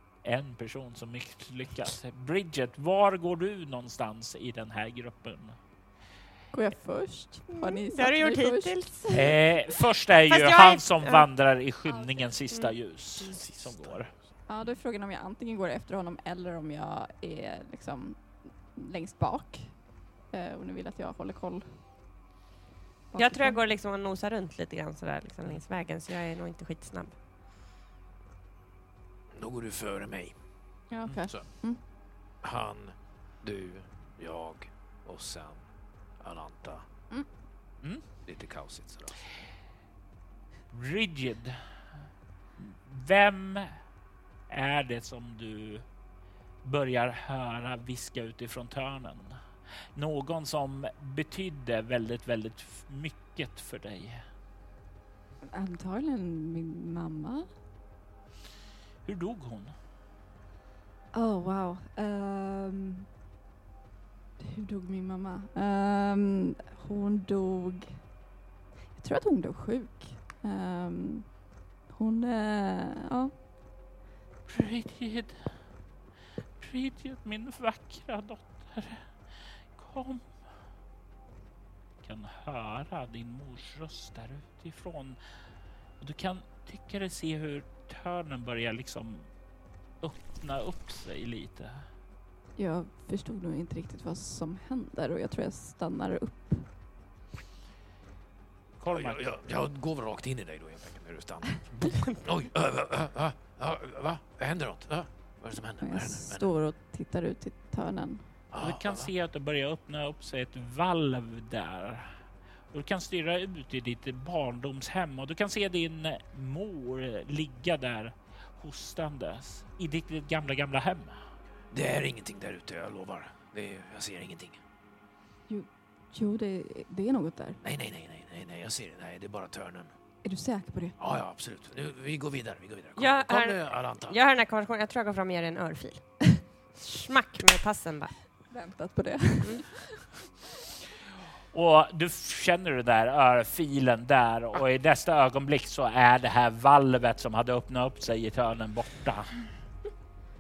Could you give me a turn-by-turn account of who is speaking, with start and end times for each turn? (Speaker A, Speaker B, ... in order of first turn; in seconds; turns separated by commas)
Speaker A: 0.2-5.6, Speaker B: 6.5-9.3, Speaker C: 7.5-9.5, Speaker A: 9.1-14.1, Speaker C: 10.3-11.3, Speaker C: 12.5-13.3, Speaker D: 13.4-14.2, Speaker B: 14.5-21.9, Speaker B: 23.1-23.6, Speaker C: 23.2-27.2, Speaker D: 29.3-31.5, Speaker B: 30.9-31.8, Speaker D: 32.4-35.7, Speaker D: 36.2-36.8, Speaker A: 37.8-38.1, Speaker D: 38.2-39.1, Speaker A: 40.7-41.6, Speaker A: 42.6-43.7, Speaker A: 44.5-45.8, Speaker A: 46.6-49.4, Speaker A: 50.0-54.2, Speaker B: 55.5-57.5, Speaker A: 59.0-59.7, Speaker B: 61.1-63.1, Speaker B: 64.4-68.1, Speaker B: 68.9-73.3, Speaker A: 74.5-75.7, Speaker A: 76.6-80.5, Speaker A: 82.0-85.2, Speaker A: 86.0-89.3, Speaker A: 90.0-91.8, Speaker B: 92.6-96.7, Speaker A: 98.8-99.2, Speaker D: 98.9-106.5, Speaker B: 105.8-108.4, Speaker D: 108.5-109.1, Speaker A: 108.6-121.2, Speaker D: 121.7-124.6, Speaker B: 125.5-127.6, Speaker D: 127.6-129.9, Speaker B: 130.2-131.0, Speaker D: 131.0-134.2, Speaker C: 133.0-138.2, Speaker B: 138.5-139.8, Speaker A: 141.5-149.6